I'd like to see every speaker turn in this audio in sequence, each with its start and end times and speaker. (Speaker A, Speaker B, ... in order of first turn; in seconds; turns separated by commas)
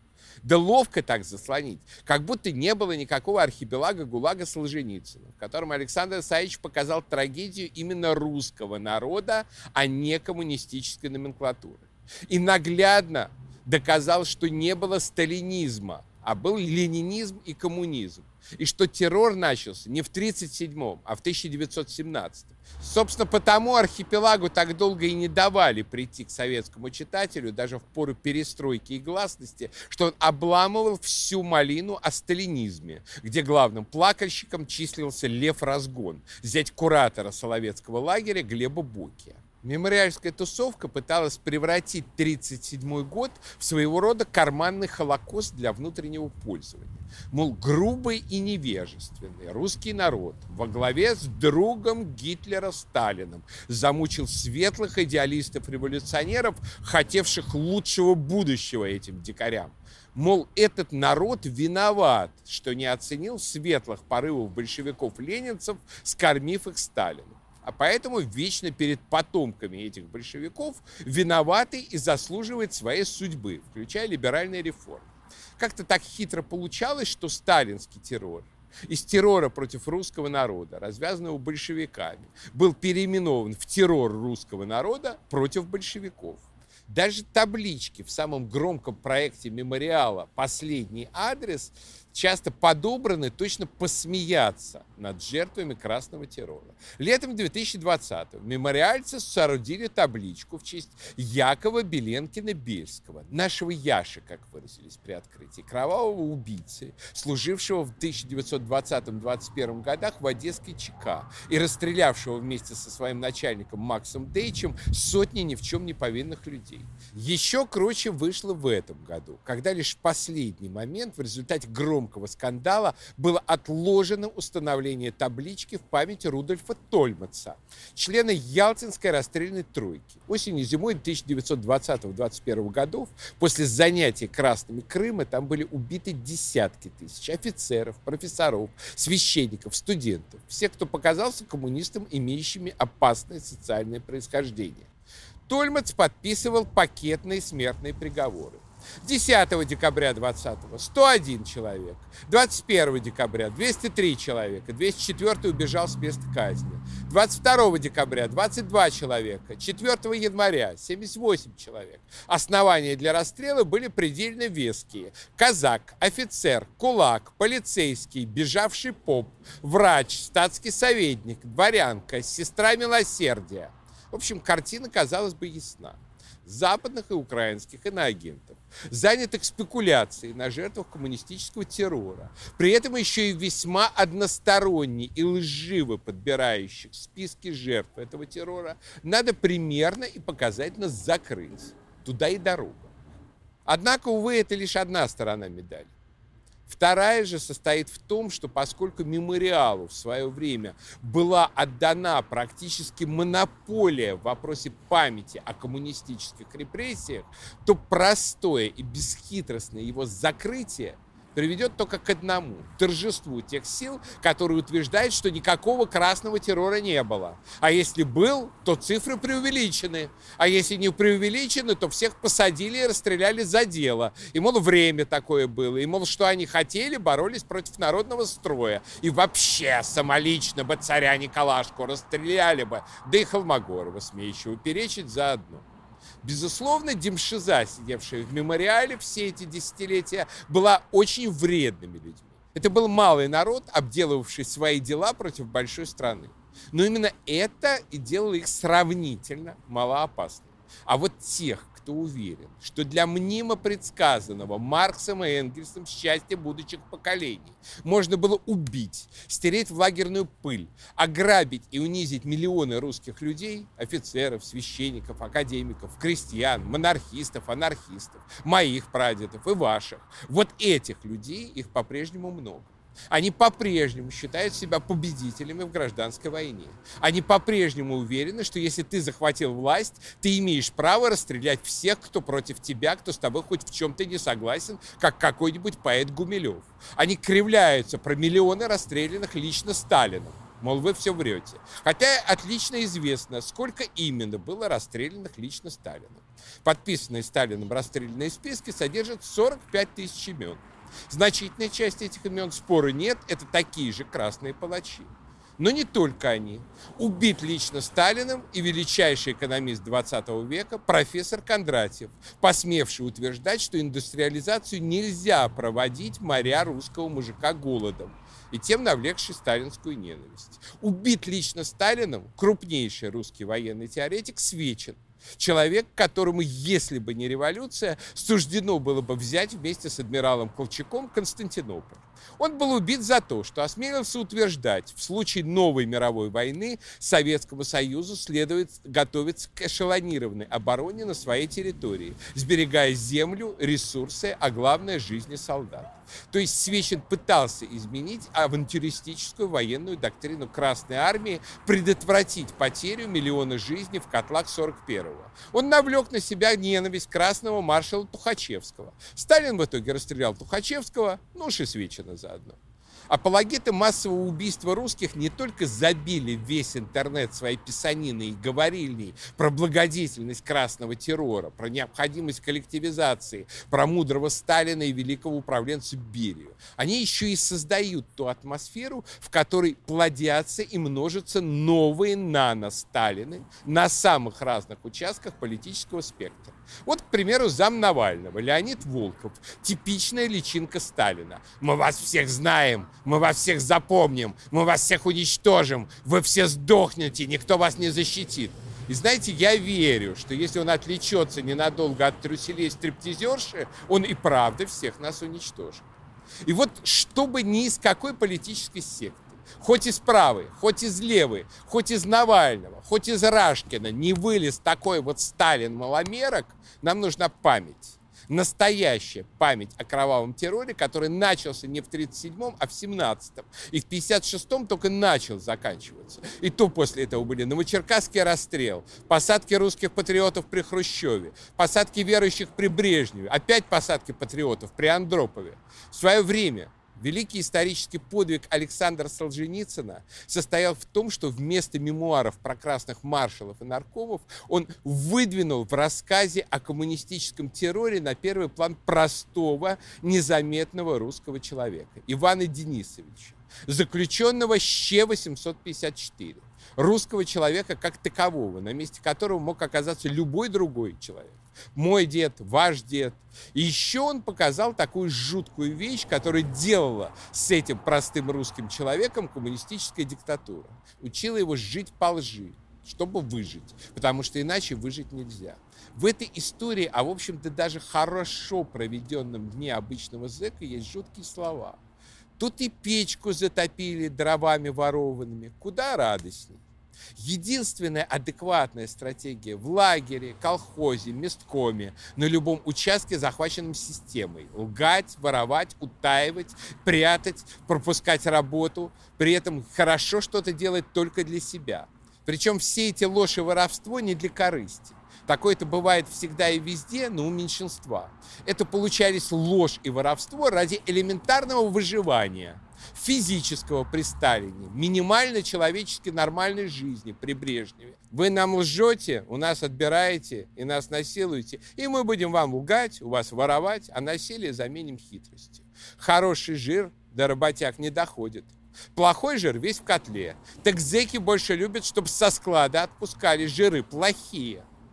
Speaker A: 0.4-144.9, Speaker A: 145.5-192.9, Speaker A: 193.7-195.9, Speaker A: 196.7-235.7, Speaker A: 236.2-362.6, Speaker A: 363.1-405.8, Speaker A: 406.4-481.8, Speaker A: 482.4-486.6, Speaker A: 487.1-534.6